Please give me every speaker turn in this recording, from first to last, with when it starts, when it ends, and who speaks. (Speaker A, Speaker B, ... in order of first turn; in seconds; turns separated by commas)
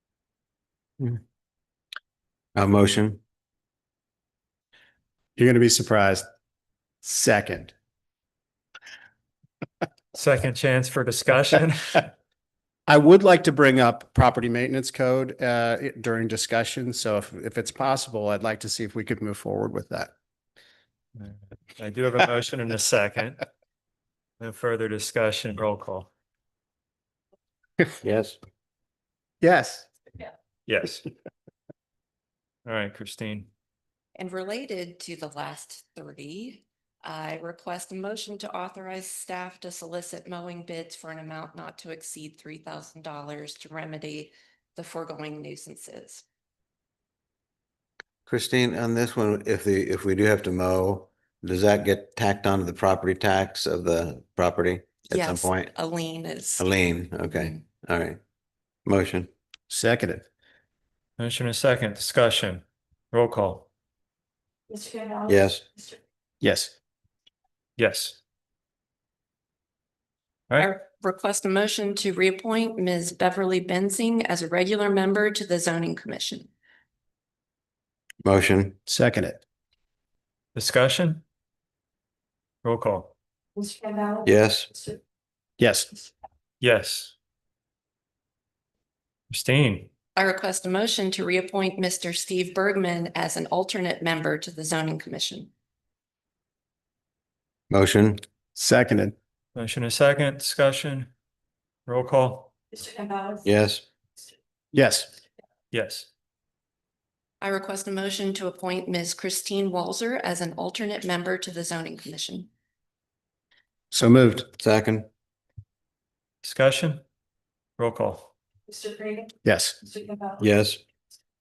Speaker A: 2.6-3.2, Speaker B: 5.4-6.2, Speaker B: 7.0-7.7, Speaker C: 10.1-12.1, Speaker B: 12.9-20.1, Speaker C: 21.1-23.4, Speaker C: 24.4-26.1, Speaker A: 28.0-28.4, Speaker B: 29.4-29.9, Speaker C: 30.7-31.0, Speaker C: 32.7-33.5, Speaker D: 34.2-46.2, Speaker A: 48.3-55.7, Speaker D: 55.1-56.7, Speaker A: 56.6-58.2, Speaker D: 57.3-57.6, Speaker A: 58.9-59.3, Speaker B: 59.7-60.2, Speaker C: 61.2-63.7, Speaker A: 65.3-65.6, Speaker B: 66.4-66.7, Speaker C: 67.8-68.2, Speaker D: 70.6-76.5, Speaker A: 78.2-78.8, Speaker B: 78.9-79.4, Speaker C: 80.5-81.2, Speaker C: 82.6-83.1, Speaker A: 84.2-84.7, Speaker B: 85.6-85.9, Speaker C: 86.6-87.1, Speaker C: 89.3-89.9, Speaker D: 90.2-95.5, Speaker A: 97.7-98.2, Speaker B: 98.6-99.2, Speaker C: 99.6-101.1, Speaker C: 101.9-102.5, Speaker A: 103.4-103.8, Speaker B: 104.7-105.1, Speaker C: 105.7-106.1, Speaker D: 107.4-112.5, Speaker B: 113.9-114.5, Speaker A: 114.6-115.1, Speaker C: 116.4-117.0, Speaker C: 117.8-118.3, Speaker B: 119.4-119.8, Speaker A: 120.4-120.8